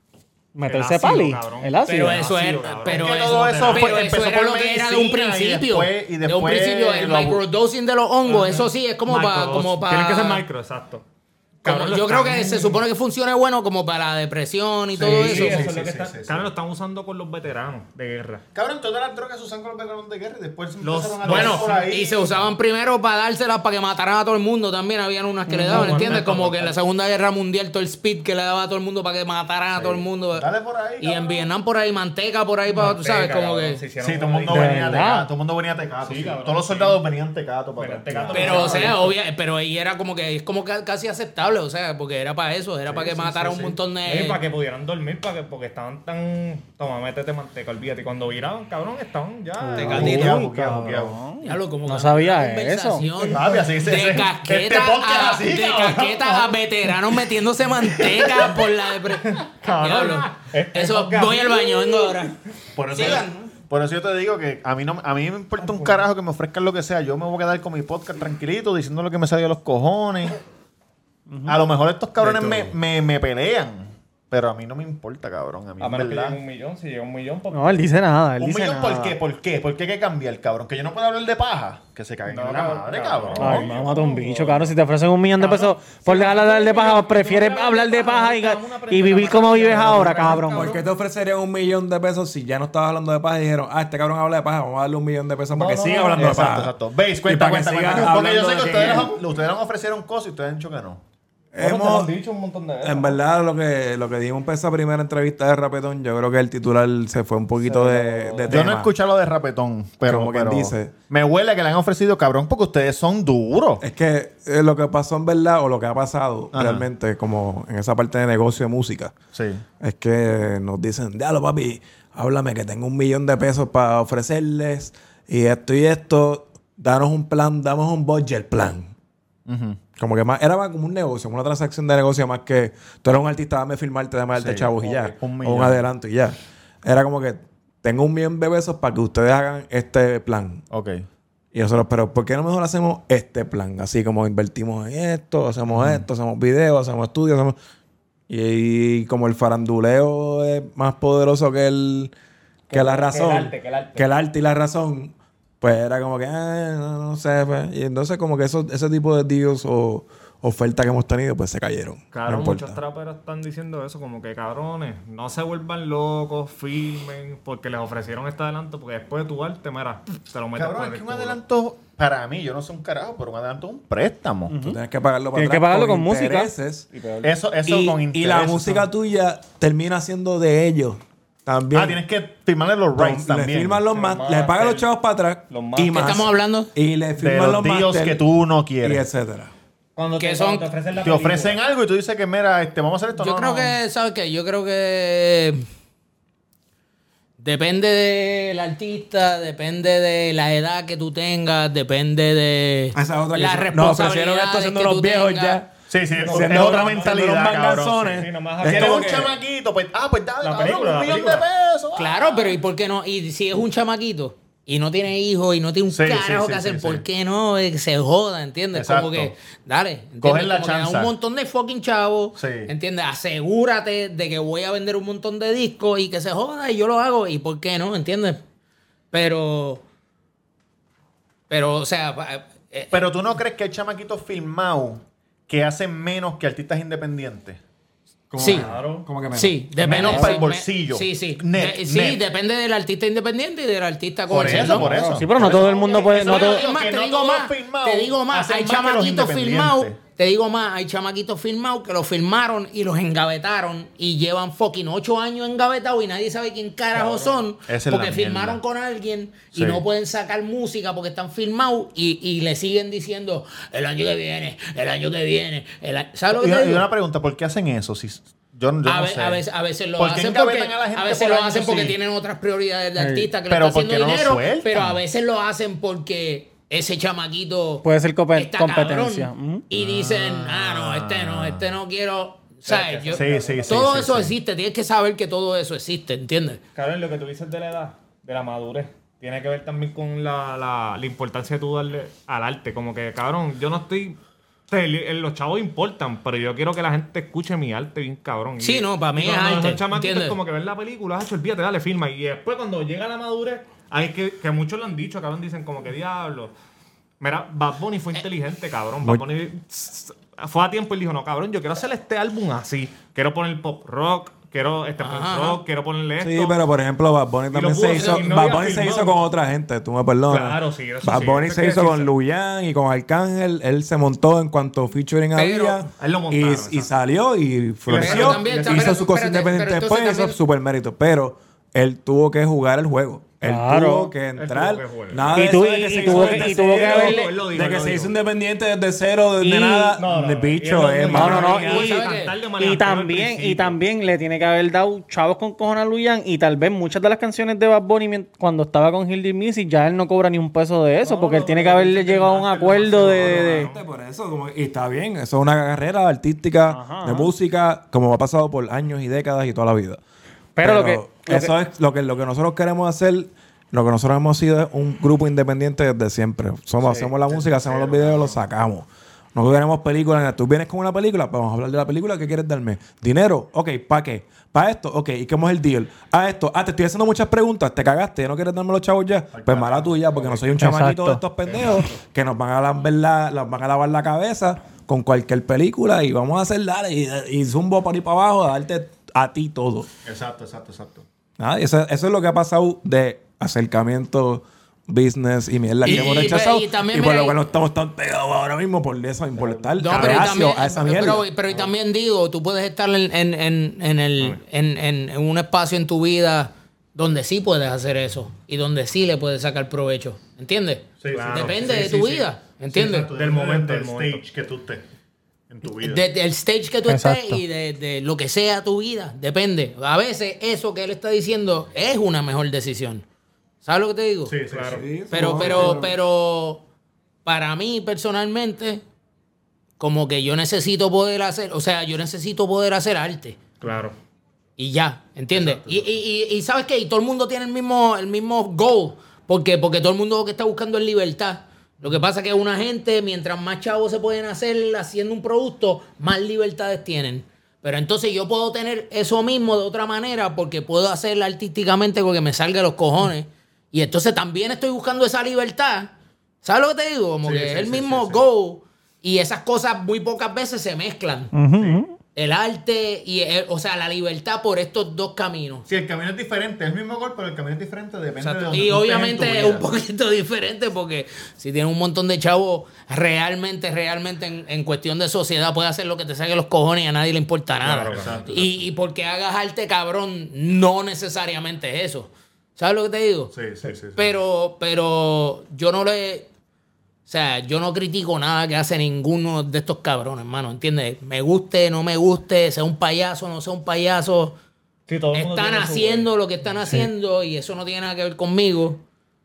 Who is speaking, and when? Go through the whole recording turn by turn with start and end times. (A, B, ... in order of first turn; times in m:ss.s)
0:00.5-0:02.2 A
0:00.6-0:04.1 B
0:01.9-0:10.4 C
0:02.8-0:07.4 D
0:08.2-0:11.0 B
0:11.6-0:12.8 B
0:11.6-0:15.7 C
0:15.0-0:16.5 D
0:15.0-0:18.4 B
0:18.5-0:22.3 D
0:20.8-0:21.8 B
0:21.2-0:30.4 C
0:25.5-0:26.1 A
0:25.7-0:26.7 B
0:29.7-0:31.5 D
0:31.0-0:33.8 C
0:32.7-0:35.0 B
0:34.0-0:39.1 D
0:34.5-0:35.3 A
0:36.0-0:37.0 B
0:37.8-0:39.2 B
0:38.3-0:44.4 C
0:42.9-0:43.8 D
0:44.0-0:50.4 B
0:49.6-0:53.1 A
0:49.7-0:50.4 C
0:49.8-0:51.2 D
0:51.4-1:02.4 C
0:53.2-0:56.9 D
0:58.0-0:58.6 D
0:59.2-1:02.2 B
1:02.7-1:10.4 D
1:02.9-1:03.5 C
1:11.3-1:11.6 A
1:11.4-1:16.4 D
1:12.2-1:12.7 B
1:12.2-1:12.6 E
1:15.8-1:17.9 B
1:17.5-1:19.2 A
1:18.4-1:23.8 D
1:22.3-1:24.8 B
1:23.4-1:30.8 A
1:25.4-1:30.8 B
1:30.5-1:36.7 E
1:35.5-1:36.6 B
1:36.1-1:41.0 D
1:37.2-1:39.2 E
1:41.5-1:42.1 E
1:41.6-1:43.2 B
1:42.8-1:48.9 E
1:47.6-1:48.7 B
1:48.5-1:53.8 D
1:50.0-1:50.9 E
1:53.8-1:59.1 E
1:56.5-1:56.9 D
1:59.3-1:59.6 D
1:59.8-2:08.9 E
2:09.5-2:09.8 D
2:10.0-2:20.6 E
2:14.3-2:15.8 D
2:20.7-2:21.0 D
2:21.5-2:27.6 E
2:25.7-2:26.0 D
2:28.3-2:32.1 E
2:32.7-2:34.1 B
2:32.7-2:42.8 E
2:42.1-2:51.4 B
2:50.5-2:54.6 D
2:54.5-2:54.8 A
2:54.6-2:56.9 E
2:55.3-2:56.5 A
2:56.9-2:57.3 B
2:57.2-2:58.9 D
2:57.7-3:02.0 E
3:01.7-3:03.8 D
3:03.0-3:08.2 E
3:03.8-3:04.9 B
3:05.5-3:06.2 B
3:05.9-3:06.7 C
3:07.2-3:09.0 D
3:08.8-3:09.5 E
3:10.0-3:11.6 B
3:10.2-3:10.7 C
3:11.0-3:13.8 D
3:13.2-3:15.6 C
3:17.4-3:25.6 C
3:22.9-3:25.7 E
3:25.9-3:28.1 D
3:26.2-3:27.2 B
3:26.2-3:29.3 E
3:28.0-3:29.3 B
3:28.6-3:32.5 D
3:30.4-3:31.5 B
3:31.9-3:48.4 C
3:35.9-3:37.0 D
3:38.7-3:39.3 D
3:40.2-3:41.1 D
3:42.4-3:42.7 D
3:49.1-3:49.8 C
3:51.5-3:53.0 C
3:52.9-3:57.6 D
3:58.3-4:00.2 E
3:58.4-3:58.7 C
3:58.4-3:59.1 B
3:59.3-4:04.9 C
3:59.8-4:02.2 D
4:00.0-4:00.4 A
4:04.3-4:10.0 D
4:04.4-4:05.0 B
4:04.8-4:06.6 A
4:05.4-4:26.9 C
4:17.0-4:17.3 B
4:17.6-4:18.6 D
4:19.5-4:19.8 D
4:26.3-4:29.4 D
4:28.8-4:46.6 C
4:30.0-4:32.0 D
4:33.0-4:33.3 A
4:33.5-4:35.0 D
4:37.8-4:39.6 A
4:39.7-4:41.7 D
4:42.6-4:44.2 B
4:43.1-4:44.4 D
4:46.7-5:06.5 B
4:58.6-5:00.4 C
5:07.2-5:16.6 B
5:09.0-5:09.3 E
5:15.0-5:15.6 C
5:16.2-5:41.6 E
5:17.5-5:19.2 B
5:20.3-5:22.1 B
5:25.3-5:25.8 C
5:26.0-5:26.9 B
5:27.9-5:29.0 B
5:27.9-5:30.4 C
5:33.4-5:34.1 A
5:34.3-5:38.2 B
5:35.3-5:37.4 A
5:39.4-5:40.0 A
5:40.0-5:43.8 B
5:41.1-5:53.7 A
5:41.2-5:42.4 C
5:51.0-5:53.8 B
5:53.1-6:00.0 E
5:56.7-5:57.3 A
6:00.6-6:01.5 A
6:00.6-6:29.9 E
6:07.2-6:08.4 D
6:19.3-6:20.5 D
6:20.6-6:21.2 A
6:30.0-6:31.0 D
6:31.4-6:41.2 E
6:35.8-6:37.4 C
6:35.8-6:36.4 D
6:39.4-6:40.2 D
6:39.8-6:53.1 C
6:39.9-6:40.3 B
6:51.0-6:54.8 D
6:51.1-6:52.2 B
6:53.0-6:54.2 B
6:55.5-6:56.0 D
6:55.8-7:03.0 C
6:56.9-6:57.4 A
7:03.6-7:04.4 C
7:04.2-7:05.8 D
7:04.5-7:05.8 B
7:04.7-7:05.9 E
7:05.1-7:06.6 C
7:07.2-7:08.8 C
7:09.8-7:13.4 C
7:13.6-7:13.9 B
7:14.6-7:41.3 C
7:37.2-7:38.2 D
7:41.3-7:41.9 A
7:42.1-7:45.7 C
7:45.7-7:49.6 D
7:48.2-8:06.3 C
7:57.6-7:58.3 B
7:57.8-7:58.7 D
8:03.3-8:04.2 D
8:07.0-8:14.3 C
8:14.9-8:16.1 B
8:15.1-8:18.8 C